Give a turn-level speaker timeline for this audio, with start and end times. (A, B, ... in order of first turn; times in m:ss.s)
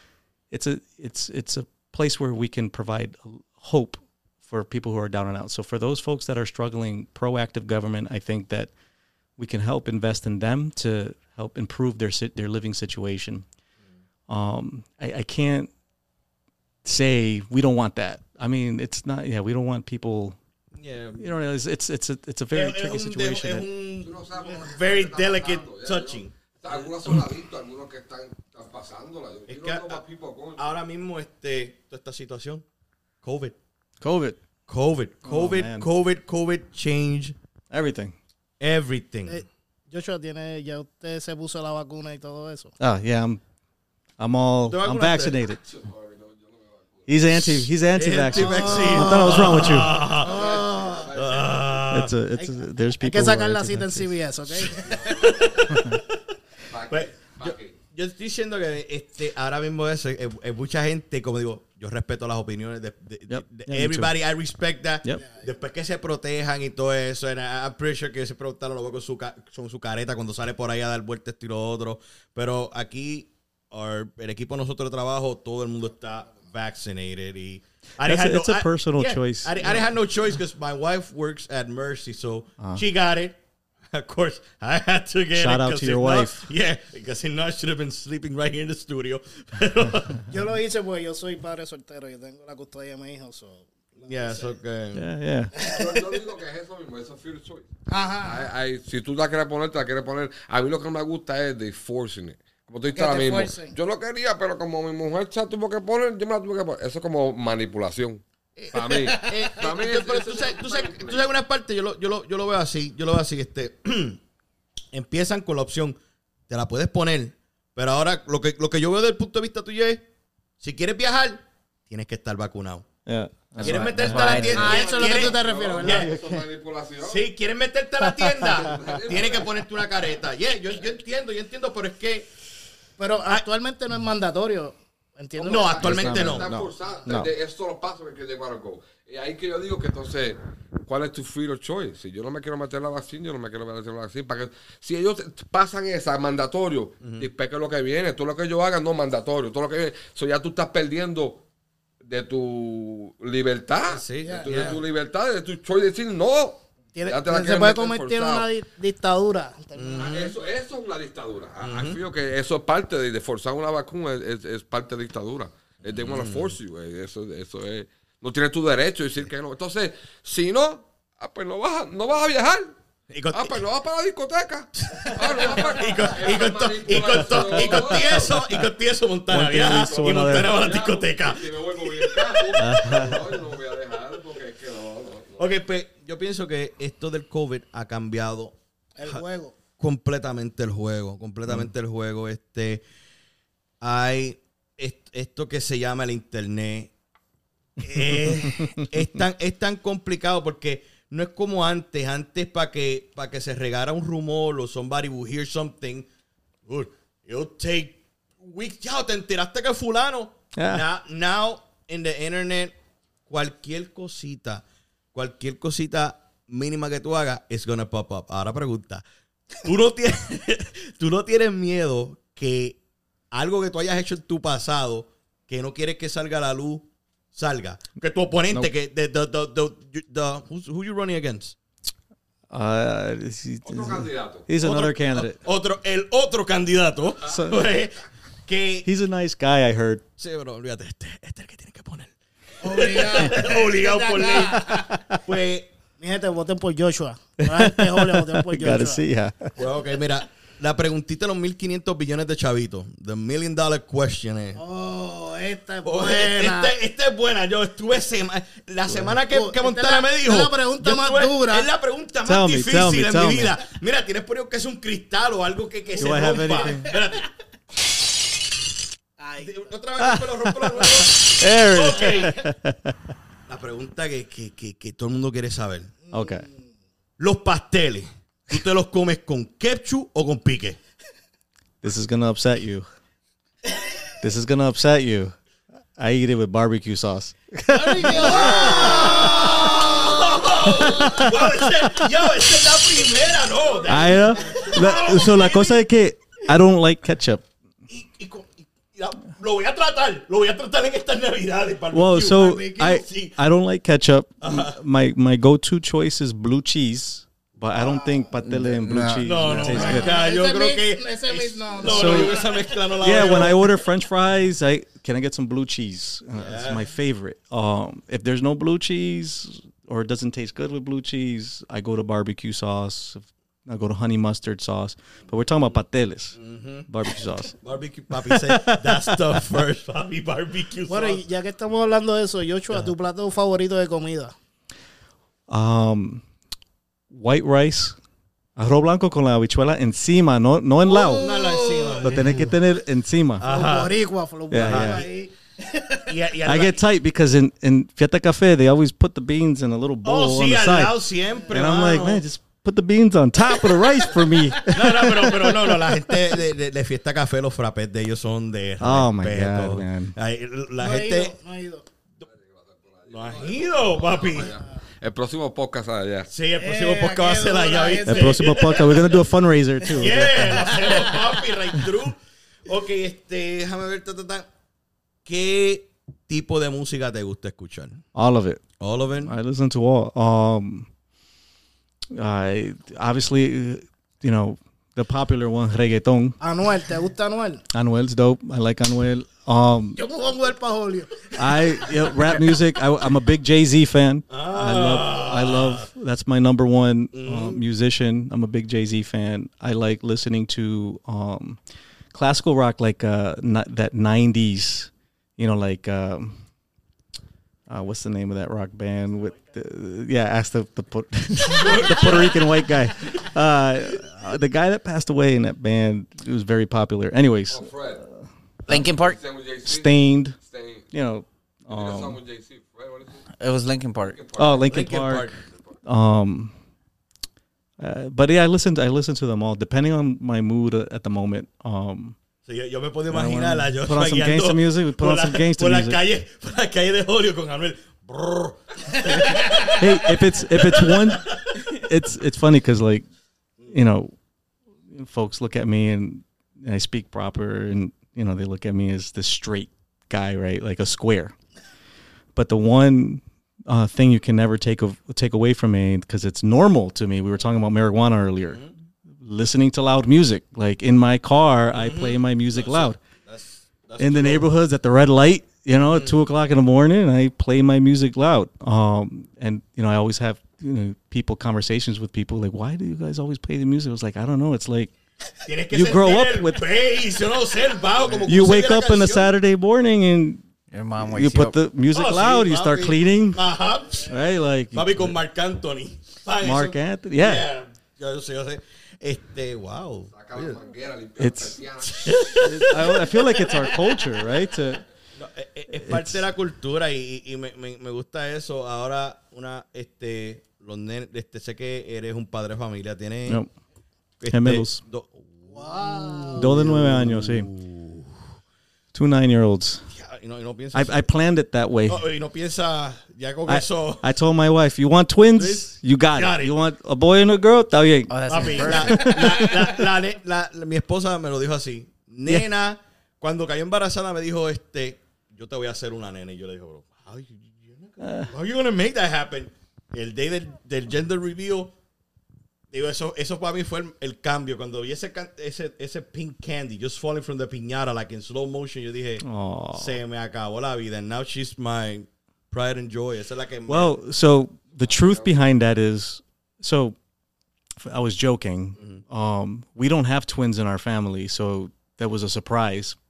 0:00.5-0:08.7 A
0:09.4-0:13.4 A
0:14.3-0:15.7 A
0:16.8-0:20.4 A
0:20.8-0:21.3 B
0:21.2-0:23.7 A
0:22.5-0:26.8 B
0:24.0-0:30.6 C
0:29.5-0:30.0 B
0:30.6-0:32.6 B
0:33.2-0:33.6 B
0:34.0-0:34.4 A
0:34.7-0:37.3 B
0:35.2-0:35.9 A
0:37.7-0:38.2 A
0:38.6-0:39.4 B
0:39.3-0:42.7 D
0:42.8-0:43.4 A
0:44.2-0:45.6 A
0:44.7-0:45.3 B
0:45.6-0:47.2 C
0:47.1-0:50.0 A
0:47.4-0:52.1 B
0:48.3-0:51.1 D
0:50.2-0:51.7 C
0:51.9-0:54.2 A
0:53.0-0:55.8 D
0:54.8-0:55.8 C
0:55.7-0:56.0 A
0:56.7-0:57.7 C
0:56.9-1:23.4 B
1:03.3-1:04.2 A
1:18.0-1:19.9 A
1:23.9-1:30.3 B
1:25.3-1:26.5 A
1:30.3-1:34.5 D
1:34.1-1:35.0 B
1:34.9-1:35.5 A
1:35.5-1:36.2 D
1:35.6-1:37.7 C
1:37.9-1:38.5 D
1:38.2-1:51.3 C
1:42.9-1:43.7 D
1:48.6-1:50.1 D
1:49.6-1:54.2 B
1:54.9-1:56.0 B
1:56.5-2:00.0 B
2:00.6-2:02.9 B
2:03.0-2:04.5 A
2:03.6-2:06.1 B
2:03.7-2:04.8 E
2:04.2-2:06.1 D
2:04.4-2:07.3 C
2:06.0-2:06.4 A
2:07.0-2:12.3 B
2:08.0-2:08.6 A
2:08.5-2:09.5 C
2:13.0-2:15.8 D
2:15.3-2:31.4 C
2:15.4-2:16.5 B
2:15.8-2:17.3 A
2:27.0-2:27.3 B
2:32.0-2:38.5 C
2:33.8-2:34.8 B
2:34.2-2:34.8 D
2:36.9-2:40.1 D
2:39.8-2:40.3 B
2:40.0-2:52.7 C
2:41.6-2:42.0 B
2:45.8-2:46.5 B
2:53.1-2:53.6 B
2:53.3-2:58.4 C
2:54.8-3:03.4 B
2:57.0-2:58.7 A
2:59.3-3:00.5 A
3:00.2-3:05.5 C
3:02.6-3:03.3 A
3:05.4-3:08.6 B
3:09.0-3:09.6 D
3:09.8-3:12.8 B
3:13.8-3:16.9 B
3:17.8-3:26.1 B
3:17.9-3:19.2 A
3:26.6-3:32.7 B
3:30.5-3:30.8 A
3:33.3-3:34.6 B
3:35.1-3:39.0 B
3:39.6-3:42.8 B
3:43.3-3:51.5 B
3:52.5-3:55.4 A
3:53.6-3:54.4 C
3:54.6-3:58.9 B
3:57.2-3:57.6 A
3:58.8-4:00.0 A
4:00.2-4:05.7 B
4:02.6-4:04.9 D
4:04.7-4:05.2 A
4:06.0-4:09.0 D
4:07.4-4:09.6 A
4:09.6-4:14.6 B
4:14.6-4:16.7 D
4:15.8-4:27.3 B
4:19.2-4:21.7 D
4:22.2-4:23.6 A
4:26.0-4:26.9 D
4:26.0-4:26.9 A
4:29.2-4:29.7 D
4:29.4-4:32.3 B
4:30.0-4:33.0 A
4:31.8-4:32.3 D
4:33.5-4:35.9 B
4:36.1-4:36.4 A
4:36.1-4:36.5 D
4:37.2-4:40.8 B
4:41.8-4:42.8 A
4:44.2-4:45.3 A
4:46.0-4:49.9 A
4:47.7-4:50.3 D
4:48.2-4:55.8 B
4:50.6-4:52.1 A
4:50.8-4:51.2 D
4:53.8-4:55.2 D
4:53.9-4:57.4 A
4:57.9-5:03.3 B
5:01.9-5:10.2 A
5:02.4-5:02.9 D
5:04.4-5:04.8 B
5:08.4-5:10.0 E
5:09.2-5:13.6 B
5:09.7-5:13.3 D
5:11.8-5:12.4 A
5:13.0-5:27.6 A
5:16.4-5:16.9 B
5:26.4-5:26.9 B
5:27.6-5:31.2 B
5:28.2-5:29.6 A
5:30.9-5:34.3 D
5:35.5-5:36.2 A
5:37.1-5:38.0 A
5:38.6-5:41.3 A
5:40.9-5:42.5 D
5:41.1-5:42.5 B
5:42.0-5:43.5 A
5:43.4-5:44.0 B
5:43.4-5:46.2 D
5:44.5-5:45.0 A
5:44.5-5:45.1 B
5:46.1-5:46.8 B
5:46.4-5:51.0 A
5:50.0-5:52.2 B
5:51.5-5:56.3 A
5:54.7-6:01.3 B
5:58.8-6:00.1 A
6:00.8-6:01.8 D
6:02.2-6:06.3 C
6:03.1-6:04.5 B
6:06.3-6:09.1 B
6:06.6-6:09.0 D
6:08.0-6:10.8 A
6:09.9-6:14.5 B
6:10.0-6:11.4 D
6:15.2-6:18.0 B
6:18.1-6:18.6 A
6:18.8-6:19.3 B
6:19.2-6:20.9 A
6:22.1-6:26.4 A
6:26.4-6:27.6 D
6:27.7-6:30.0 A
6:30.0-6:32.2 D
6:31.3-6:41.6 A
6:34.3-6:35.9 B
6:37.1-6:37.6 B
6:42.1-6:46.4 A
6:47.7-6:57.7 A
6:51.5-6:52.5 B
6:57.5-6:58.0 C
6:58.7-6:59.2 E
6:58.7-7:00.8 C
6:59.6-7:00.4 A
7:00.9-7:02.2 A
7:01.6-7:03.3 C
7:03.4-7:04.2 E
7:04.0-7:04.8 C
7:04.4-7:06.5 A
7:04.7-7:05.4 B
7:07.8-7:12.2 A
7:12.4-7:21.7 B
7:13.1-7:16.0 A
7:19.8-7:23.0 A
7:23.7-7:24.2 A
7:24.9-7:31.3 A
7:32.3-7:38.6 A
7:38.4-7:38.7 B
7:39.2-7:43.0 A
7:41.7-7:44.4 B
7:44.0-7:54.9 A
7:45.8-7:46.1 B
7:55.4-7:59.3 B
7:55.7-7:56.7 A
7:58.2-8:00.4 A
8:00.7-8:01.6 E
8:01.0-8:03.4 A
8:01.9-8:04.1 B
8:04.0-8:05.1 A
8:04.7-8:10.6 B
8:06.4-8:07.5 A
8:10.1-8:12.9 C
8:11.2-8:11.6 A
8:11.8-8:13.7 B
8:12.4-8:14.8 A
8:15.2-8:23.4 B
8:15.7-8:16.2 A
8:24.2-8:28.2 B
8:24.3-8:24.8 A
8:25.5-8:26.8 D
8:26.4-8:27.5 A
8:28.9-8:29.9 A
8:29.9-8:31.0 B
8:30.7-8:32.0 A
8:31.9-8:34.0 B
8:33.4-8:39.9 A
8:35.3-8:36.5 B
8:38.1-8:39.7 E
8:38.3-8:51.7 B
8:48.0-8:48.3 A
8:52.7-9:03.9 B
8:59.2-9:00.0 A
9:03.7-9:07.0 A
9:05.0-9:05.2 C
9:07.8-9:13.0 A